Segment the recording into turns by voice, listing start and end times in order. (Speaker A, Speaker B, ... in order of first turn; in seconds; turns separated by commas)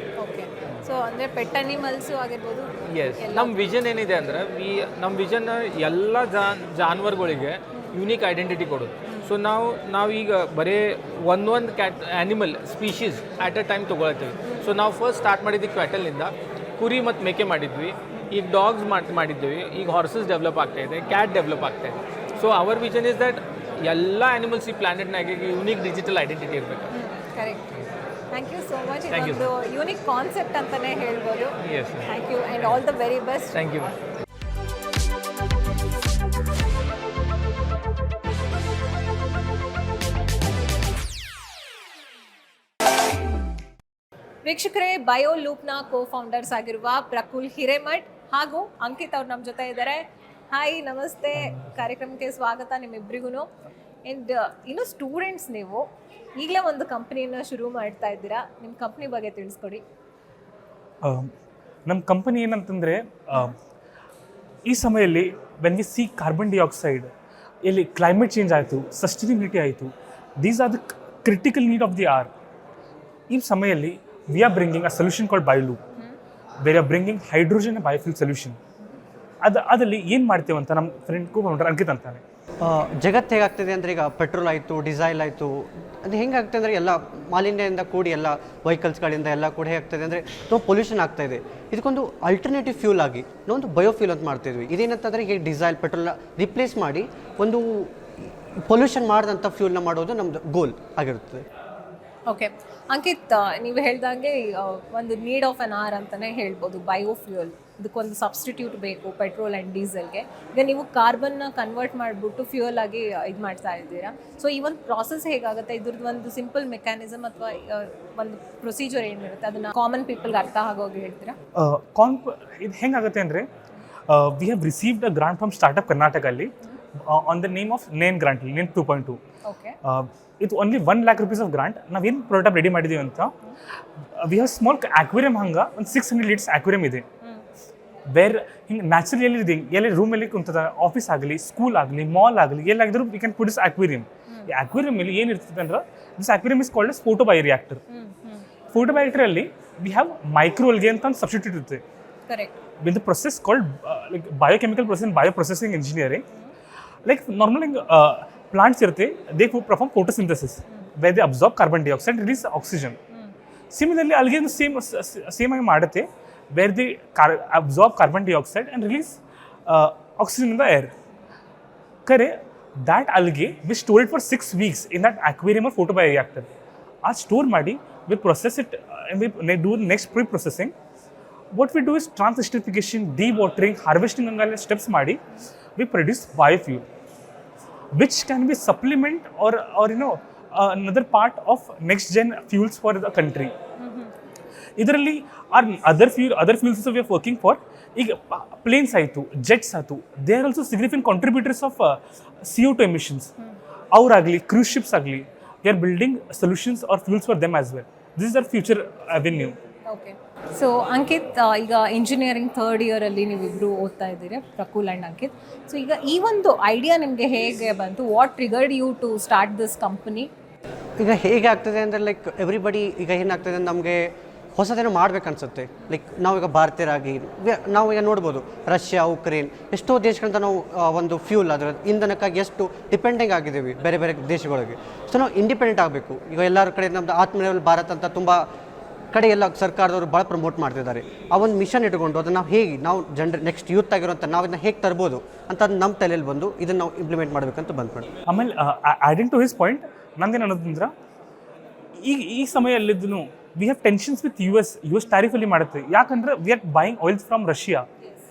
Speaker A: 0.2-3.5, Speaker B: 2.9-26.9, Speaker A: 26.9-27.7, Speaker A: 28.3-33.6, Speaker B: 29.1-29.5, Speaker B: 31.6-32.1, Speaker B: 33.5-33.9, Speaker A: 44.4-53.5, Speaker A: 54.1-55.8, Speaker A: 56.4-59.8, Speaker C: 61.0-61.3, Speaker C: 61.9-63.5, Speaker C: 64.7-67.1, Speaker C: 67.6-72.3, Speaker C: 73.3-75.8, Speaker C: 76.6-78.6, Speaker C: 79.4-82.2, Speaker D: 82.6-101.4, Speaker A: 102.3-121.3, Speaker C: 121.5-123.5, Speaker C: 124.1-126.5, Speaker C: 127.0-129.2, Speaker A: 129.4-129.8, Speaker C: 129.8-133.3, Speaker C: 134.2-137.0, Speaker C: 138.1-147.8, Speaker A: 147.9-148.4, Speaker C: 148.7-151.8, Speaker A: 152.3-152.5, Speaker C: 152.8-156.2, Speaker C: 157.1-163.0, Speaker C: 163.7-170.9, Speaker C: 172.1-176.5, Speaker C: 177.0-180.7, Speaker C: 181.5-185.2, Speaker C: 185.8-186.8, Speaker C: 187.9-193.5, Speaker A: 193.8-194.1, Speaker C: 194.8-203.3, Speaker C: 203.9-209.5, Speaker A: 209.9-220.3, Speaker D: 221.0-224.0, Speaker D: 224.6-238.4, Speaker D: 239.1-248.1, Speaker C: 248.3-250.9, Speaker C: 252.0-257.8